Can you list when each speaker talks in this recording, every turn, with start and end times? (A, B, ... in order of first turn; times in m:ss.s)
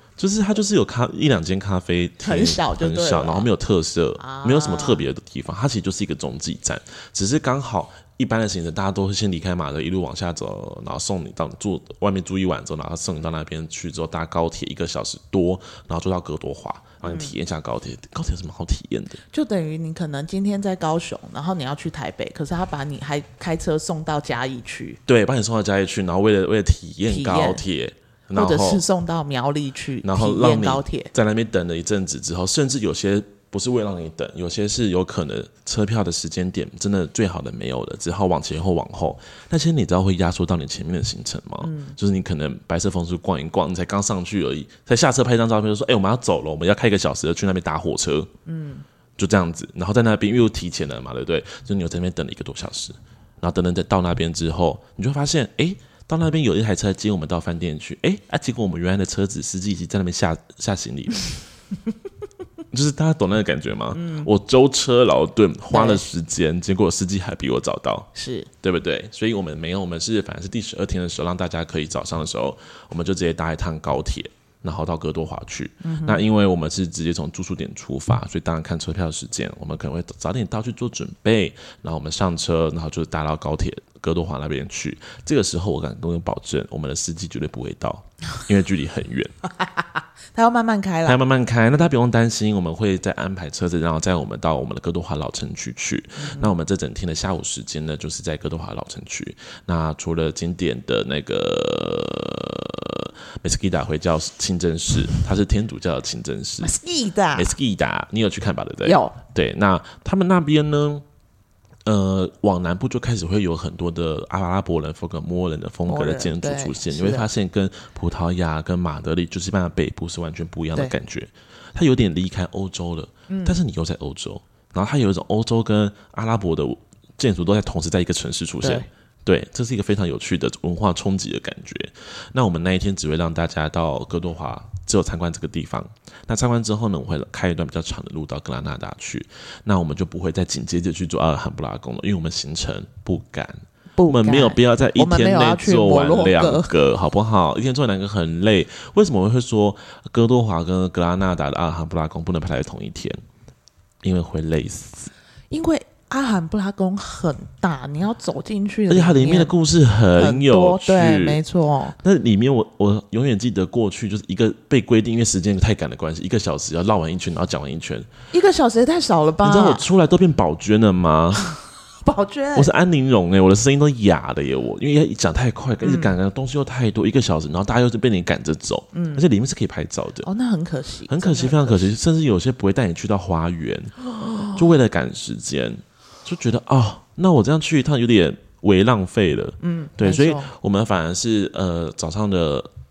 0:00.2-0:19.2 A
0:02.2-0:03.5 B
0:04.2-0:05.0 B
0:17.0-0:17.3 B
0:19.3-0:25.0 B
0:25.1-0:28.8 A
0:27.1-0:27.6 B
0:28.3-0:31.1 B
0:30.0-0:48.3 A
0:41.6-0:42.0 B
0:48.5-0:48.8 B
0:49.2-1:01.3 A
1:02.7-1:08.1 A
1:03.9-1:04.3 B
1:05.7-1:06.0 B
1:08.2-1:08.5 B
1:08.6-1:29.3 A
1:15.8-1:16.2 B
1:29.6-1:31.2 B
1:31.0-1:46.7 A
1:36.2-1:36.5 B
1:46.6-1:47.6 B
1:47.3-1:51.0 A
1:48.8-1:49.2 B
1:51.8-2:33.2 A
1:55.9-1:57.3 B
2:03.3-2:03.6 B
2:08.6-2:08.9 B
2:24.0-2:26.7 B
2:34.0-2:35.1 A
2:35.5-2:39.5 B
2:38.9-2:41.4 A
2:40.2-2:42.0 B
2:42.0-2:48.1 A
2:48.3-2:49.8 B
2:49.4-2:51.5 A
2:52.0-2:52.7 B
2:52.6-3:00.3 A
2:55.8-2:56.2 B
2:58.9-2:59.2 B
3:00.2-3:01.9 B
3:01.1-3:12.7 A
3:09.6-3:10.5 B